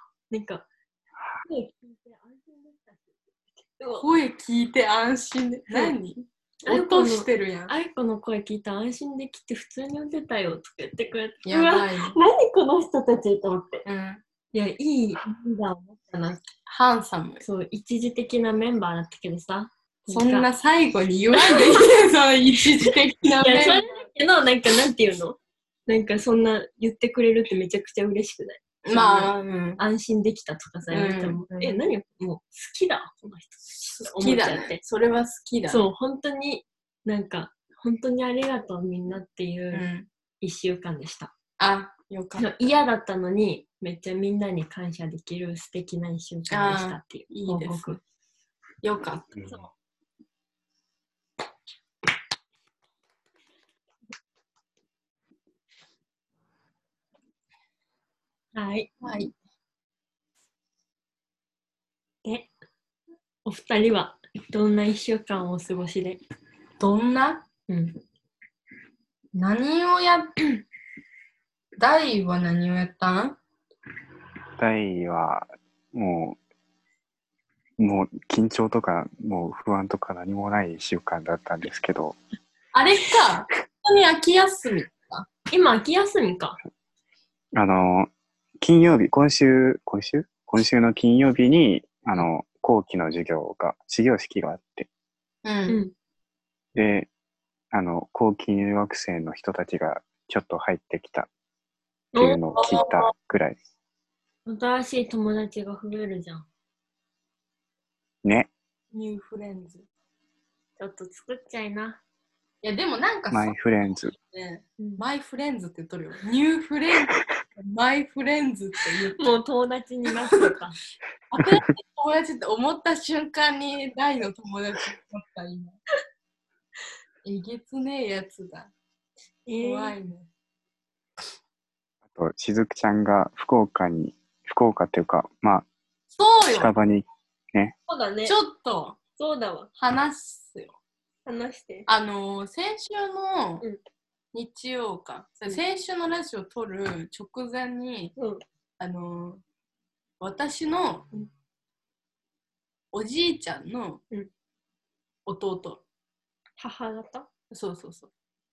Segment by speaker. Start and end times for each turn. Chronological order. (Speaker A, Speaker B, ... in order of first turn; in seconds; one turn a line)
Speaker A: 0.3-0.7
Speaker A: 1.4-4.1
Speaker B: 4.0-7.7
Speaker A: 5.7-5.9
Speaker A: 6.6-13.8
Speaker B: 11.4-12.2
Speaker B: 13.8-14.2
Speaker A: 14.5-16.4
Speaker B: 16.7-17.4
Speaker A: 17.4-20.5
Speaker B: 20.1-24.1
Speaker A: 21.4-21.8
Speaker A: 23.4-34.8
Speaker B: 28.8-29.8
Speaker B: 30.9-31.8
Speaker B: 33.8-35.8
Speaker A: 35.7-39.9
Speaker B: 39.7-40.1
Speaker A: 40.4-41.3
Speaker B: 41.6-42.4
Speaker A: 42.4-48.0
Speaker B: 46.5-48.0
Speaker B: 48.8-49.3
Speaker A: 58.5-58.9
Speaker B: 59.0-59.3
Speaker A: 63.4-66.2
Speaker B: 66.8-67.4
Speaker A: 67.7-68.0
Speaker B: 69.3-70.5
Speaker B: 71.8-73.4
Speaker C: 74.6-76.4
Speaker C: 77.8-82.2
Speaker B: 82.7-85.3
Speaker A: 85.5-86.6
Speaker C: 87.5-94.9
Speaker B: 95.4-95.8
Speaker A: 95.7-95.9
Speaker C: 96.7-97.1
Speaker C: 97.7-101.3
Speaker A: 102.1-102.8
Speaker C: 102.1-103.6
Speaker B: 102.6-103.0
Speaker A: 104.5-106.5
Speaker C: 108.2-108.5
Speaker B: 108.9-109.8
Speaker A: 110.8-112.0
Speaker B: 112.6-119.3
Speaker C: 113.3-114.1
Speaker A: 114.8-115.0
Speaker A: 119.2-120.8
Speaker B: 121.3-125.8
Speaker B: 127.2-128.7
Speaker A: 129.4-129.9
Speaker B: 129.5-130.3
Speaker C: 132.1-135.7
Speaker B: 136.1-136.7
Speaker C: 136.5-137.7
Speaker A: 137.9-138.3
Speaker B: 138.2-139.0
Speaker A: 139.2-139.7
Speaker B: 139.8-140.8
Speaker A: 141.2-141.9
Speaker B: 141.9-143.6
Speaker B: 144.3-148.1
Speaker A: 148.2-148.4
Speaker B: 148.8-149.4
Speaker B: 150.2-151.3
Speaker B: 152.9-154.0
Speaker B: 155.2-155.8
Speaker A: 156.6-157.3
Speaker B: 157.5-158.1